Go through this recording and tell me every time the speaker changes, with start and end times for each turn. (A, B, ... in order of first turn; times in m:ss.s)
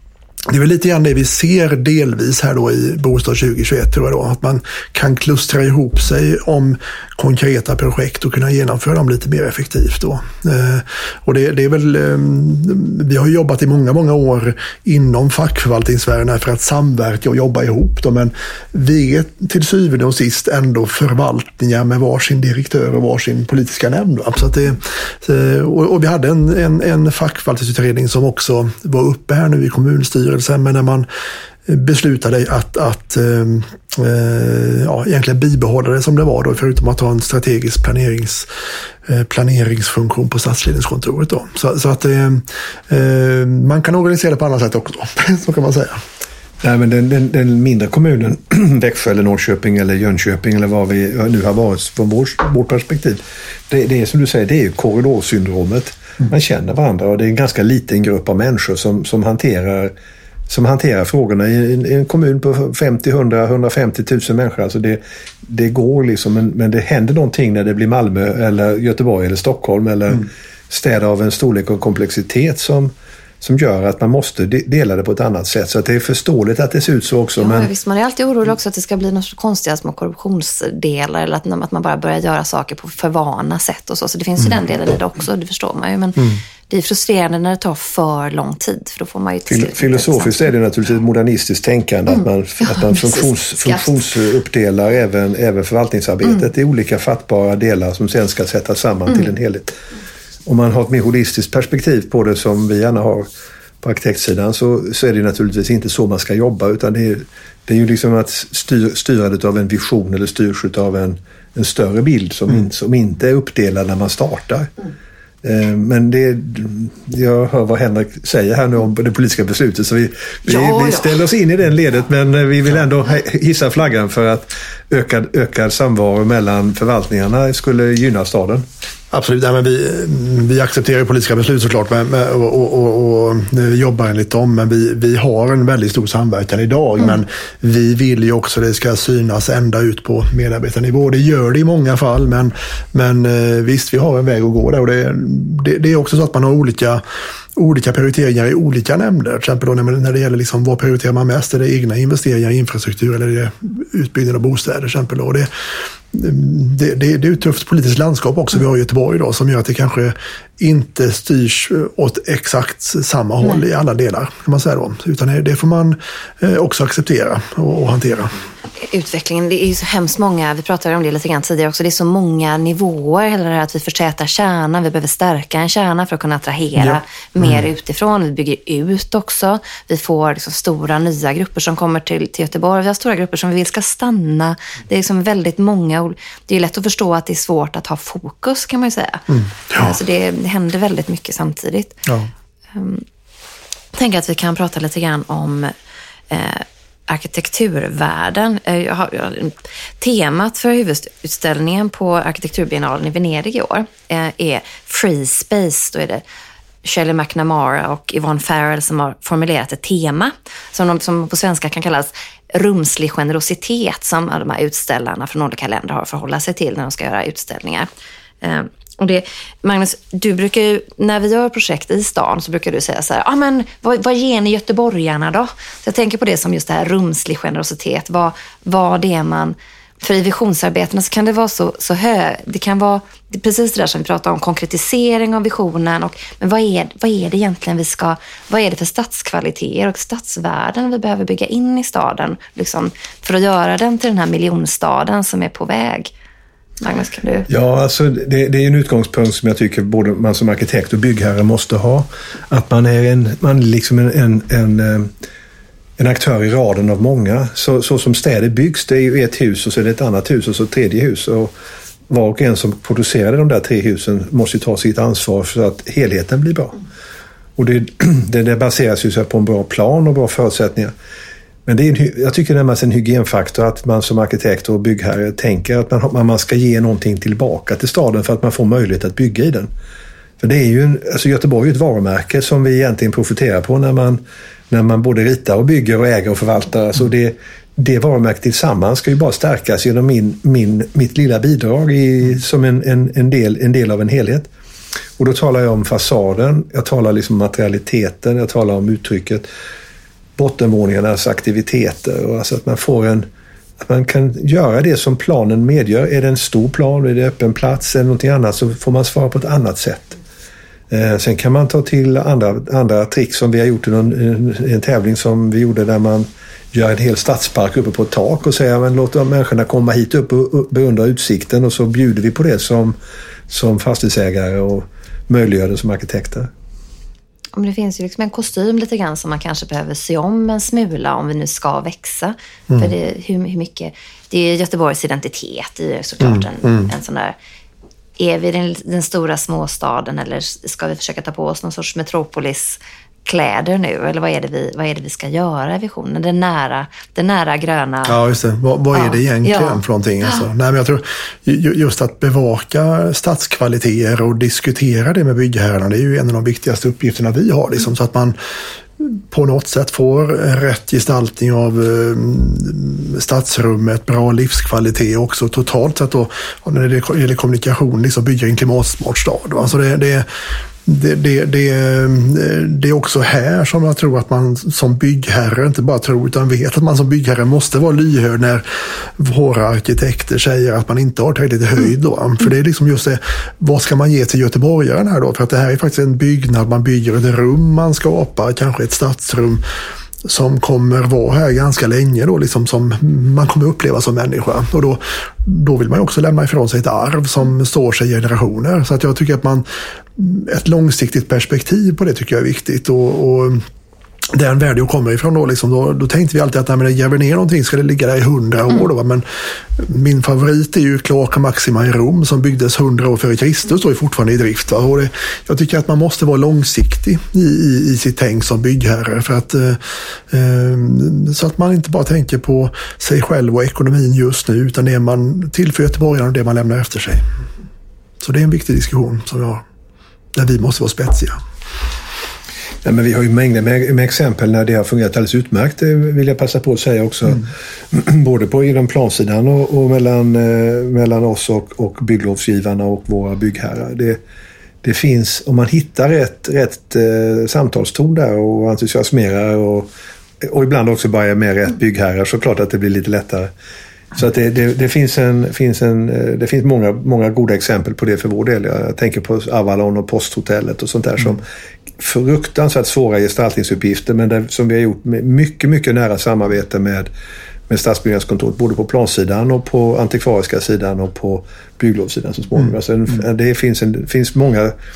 0:00.5-0:31.1 A
0:31.6-0:38.5 A
0:39.0-0:46.0 A
0:46.6-0:59.9 B
1:00.5-1:17.7 B
1:17.4-1:30.4 C
1:29.5-1:39.8 B
1:32.1-1:33.9 C
1:40.4-1:43.3 B
1:43.8-1:54.7 B
1:55.4-2:08.6 B
2:00.5-2:01.2 C
2:09.1-2:27.0 A
2:27.6-2:35.5 A
2:36.1-2:48.4 A
2:48.8-3:12.0 C
3:09.3-3:09.9 A
3:12.7-3:13.0 C
3:13.9-3:15.7 C
3:16.3-3:26.2 C
3:26.8-3:37.9 C
3:38.4-4:06.1 C
4:06.8-4:07.5 C
4:07.5-4:15.1 B
4:16.0-4:21.5 B
4:22.1-4:26.8 B
4:27.6-4:30.9 B
4:31.6-4:39.7 B
4:40.4-4:54.5 B
4:55.2-4:59.5 B
5:00.4-5:03.3 B
5:03.8-5:10.2 B
5:10.9-5:23.0 B
5:23.5-5:26.5 B
5:27.6-5:37.3 C
5:36.2-5:36.9 A
5:38.2-5:48.2 C
5:48.0-5:58.4 A
5:48.9-5:49.8 C
5:59.0-6:10.3 A
6:10.8-6:29.6 A
6:30.2-6:43.6 A
6:44.3-7:07.2 A
7:08.2-7:09.6 A
7:10.3-7:11.4 A
7:12.8-7:24.2 B
7:24.8-7:29.9 B
7:30.4-7:33.5 B
7:34.1-7:41.4 B
7:42.0-7:47.1 B
7:47.7-7:54.7 B